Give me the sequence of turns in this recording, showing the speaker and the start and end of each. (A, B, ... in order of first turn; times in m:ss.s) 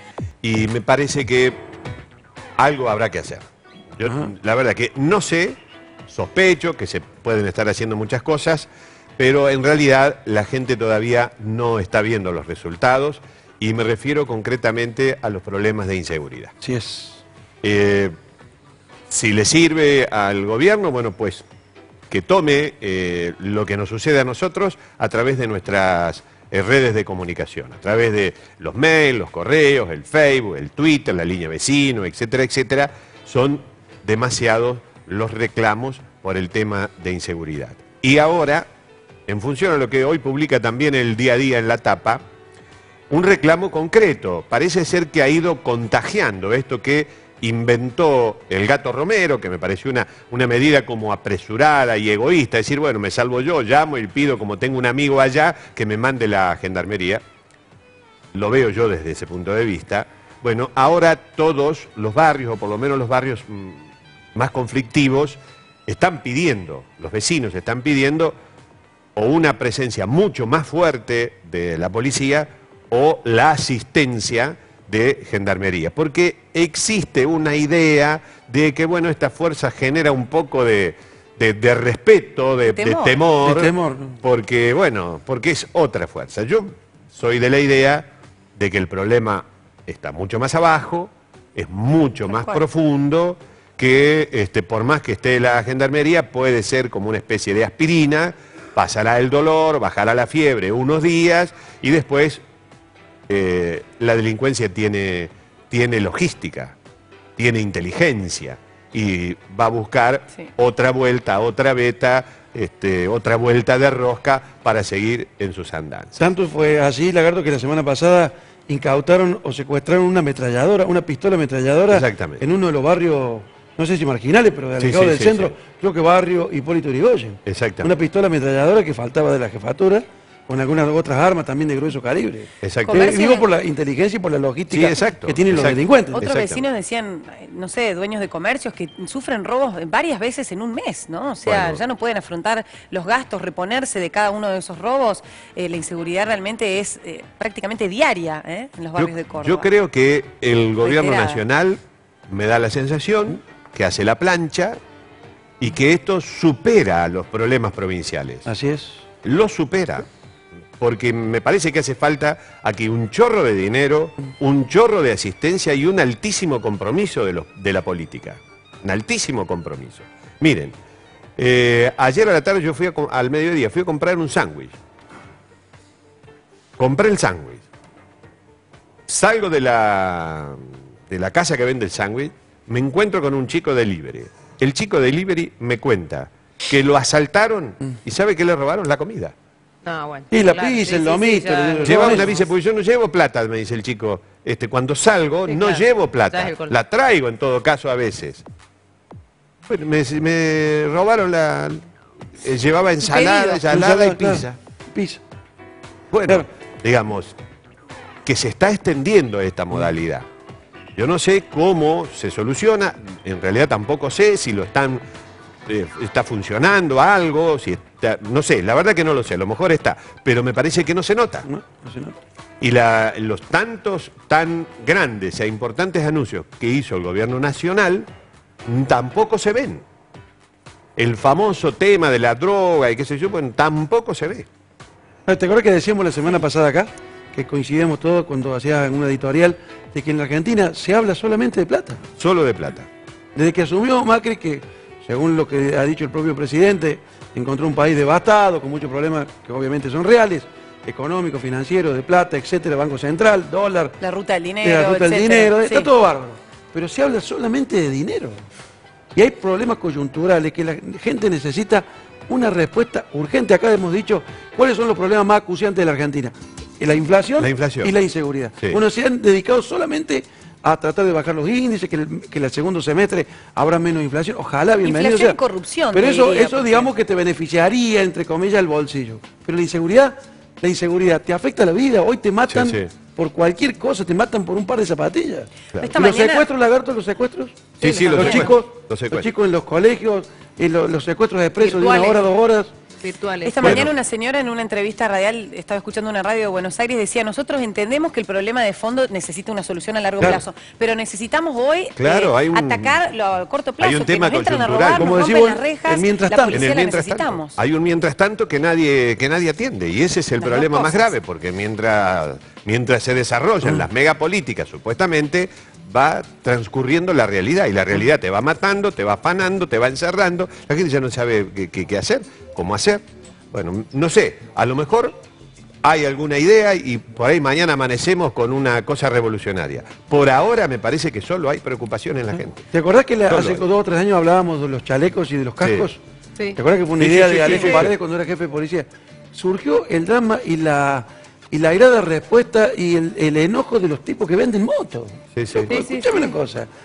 0:00.4-0:01.6 A
0:02.6-0:03.4 A
0:04.0-0:16.5 A
0:16.6-0:17.2 B
0:17.6-0:18.1 A
0:19.1-0:21.5 A
0:22.1-0:38.7 A
0:39.3-0:42.2 A
0:43.1-0:57.2 A
0:58.3-1:08.4 A
1:09.2-1:42.4 A
1:22.7-1:23.2 C
1:23.4-1:24.2 B
1:32.3-1:32.6 C
1:43.3-1:46.8 A
1:47.4-1:56.3 A
1:56.2-2:16.2 B
2:01.9-2:02.4 A
2:04.8-2:05.6 A
2:07.5-2:07.9 A
2:12.6-2:13.1 A
2:12.8-2:13.5 C
2:14.7-2:16.6 A
2:16.1-2:29.7 C
2:21.4-2:21.8 A
2:29.0-2:34.8 A
2:30.8-2:31.4 C
2:35.6-2:38.4 A
2:38.5-2:39.0 B
2:39.2-2:40.1 A
2:40.8-2:50.8 A
2:51.4-2:54.8 A
2:56.8-2:57.6 A
2:59.1-3:09.3 A
3:09.8-3:12.5 D
3:10.3-3:12.3 B
3:11.8-3:18.4 A
3:15.5-3:16.8 D
3:19.7-3:24.6 A
3:23.1-3:25.2 B
3:26.1-3:27.4 A
3:28.2-3:30.3 A
3:31.0-3:35.0 A
3:35.7-3:41.5 A
3:41.5-3:42.2 B
3:42.6-3:48.1 A
3:48.7-3:49.8 A
3:51.0-3:54.5 A
3:55.3-4:02.0 B
4:02.2-4:02.9 A
4:03.4-4:14.0 B
4:14.0-4:15.9 C
4:14.6-4:18.4 B
4:19.2-4:35.4 B
4:27.4-4:28.0 A
4:34.8-4:36.9 C
4:35.9-4:52.7 B
4:42.5-4:42.9 A
4:45.8-4:46.4 C
4:47.8-4:49.3 A
4:47.8-4:48.5 C
4:51.6-4:52.2 C
4:53.0-4:53.9 D
4:53.4-5:07.6 C
4:53.6-4:53.9 A
5:02.0-5:03.0 A
5:03.8-5:05.2 A
5:05.0-5:06.7 B
5:06.5-5:25.2 A
5:10.4-5:11.2 C
5:25.8-5:32.7 A
5:32.7-5:36.0 B
5:33.3-5:33.6 A
5:35.6-5:35.9 A
5:36.5-5:46.7 B
5:37.0-5:37.9 A
5:37.5-5:37.8 D
5:45.4-5:45.7 A
5:45.7-5:46.4 D